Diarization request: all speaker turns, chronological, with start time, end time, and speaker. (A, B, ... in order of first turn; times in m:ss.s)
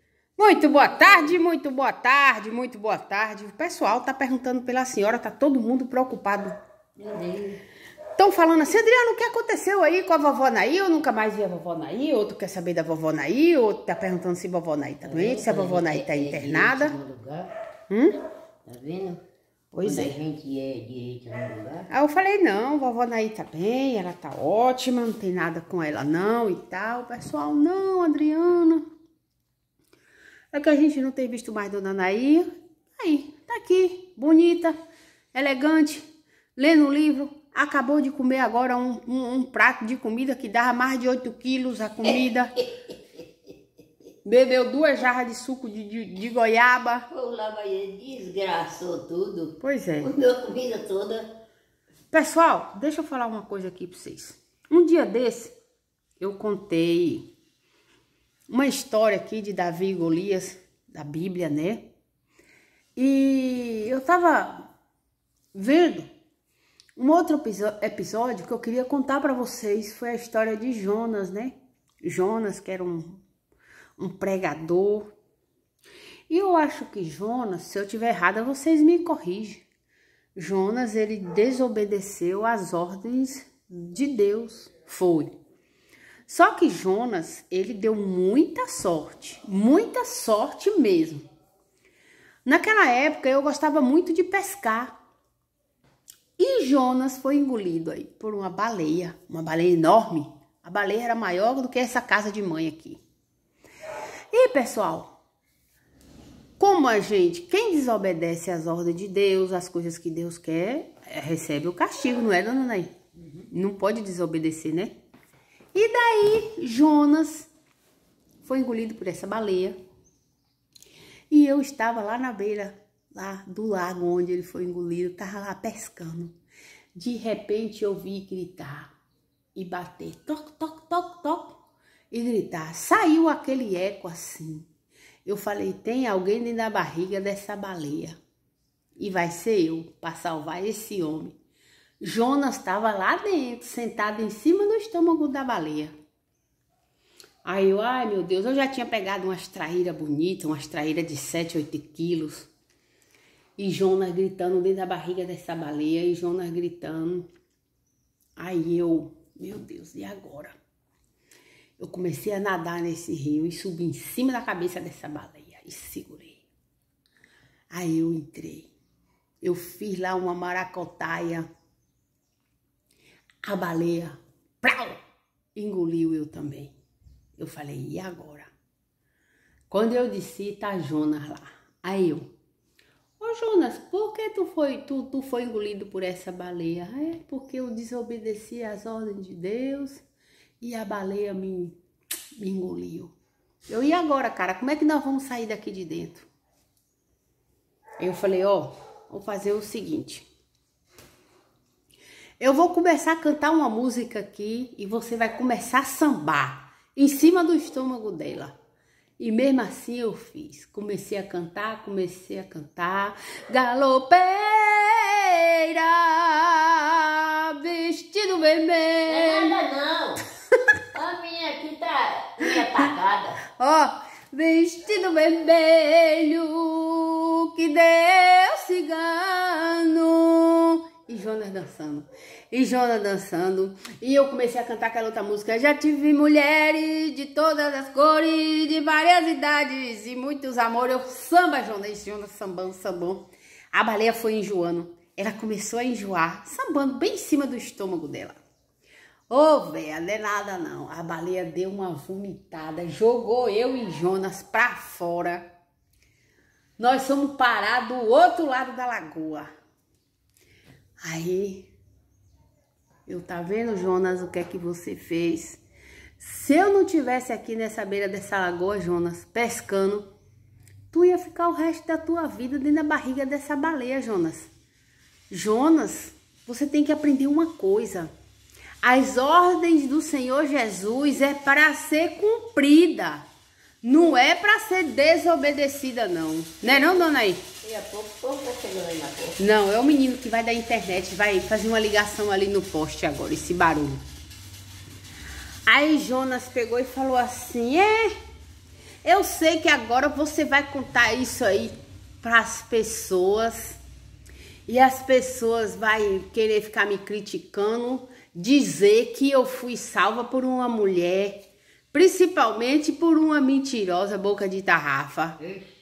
0:00.4-0:06.5 A
0:00.6-0:01.4 B
0:07.0-0:07.6 B
0:08.2-0:17.0 A
0:15.0-0:17.5 B
0:17.9-0:18.2 A
0:18.6-0:19.2 B
0:19.7-0:20.2 A
0:19.8-0:21.9 B
0:21.9-0:28.8 A
0:30.5-0:34.8 A
0:35.3-0:42.6 A
0:44.2-0:47.1 A
0:47.1-0:51.3 B
0:49.6-0:50.1 A
0:52.1-0:55.5 A
0:56.2-0:57.3 A
0:58.5-1:01.9 A
1:03.0-1:04.7 A
1:05.5-1:06.1 A
1:07.0-1:13.2 A
1:14.0-1:15.1 A
1:16.3-1:19.6 A
1:20.3-1:25.3 A
1:26.3-1:31.2 A
1:32.4-1:34.9 A
1:36.4-1:43.0 A
1:44.3-1:45.1 A
1:46.6-1:52.9 A
1:53.5-1:54.9 A
1:55.7-1:57.5 A
1:58.4-1:59.7 A
2:01.3-2:06.3 A
2:06.9-2:08.9 A
2:09.5-2:11.6 A
2:12.1-2:14.7 A
2:15.2-2:18.2 A
2:19.0-2:21.4 A
2:22.0-2:25.9 A
2:27.4-2:32.5 A
2:33.6-2:37.3 A
2:38.4-2:40.6 A
2:41.8-2:46.4 A
2:47.7-2:48.7 A
2:49.4-2:51.5 A
2:53.4-2:55.0 A
2:55.5-2:56.7 A
2:57.4-2:58.5 A
2:59.7-3:02.3 A
3:03.2-3:10.0 A
3:10.6-3:11.8 A
3:12.4-3:13.1 A
3:13.7-3:16.3 A
3:18.0-3:20.2 A
3:22.4-3:28.5 A
3:29.2-3:39.6 A
3:39.0-3:40.2 B
3:40.9-3:43.4 B
3:43.6-4:08.4 A
4:09.3-4:15.5 A
4:16.8-4:19.5 A
4:21.0-4:21.7 A
4:23.1-4:25.6 A
4:26.2-4:30.1 A
4:30.9-4:34.5 A
4:35.3-4:38.1 A
4:38.8-4:43.2 A
4:43.8-4:47.4 A
4:46.6-4:47.1 B
4:47.6-4:49.4 B
4:49.4-4:54.0 A
4:55.6-4:58.1 A
4:59.0-5:03.8 A
5:04.7-5:15.4 A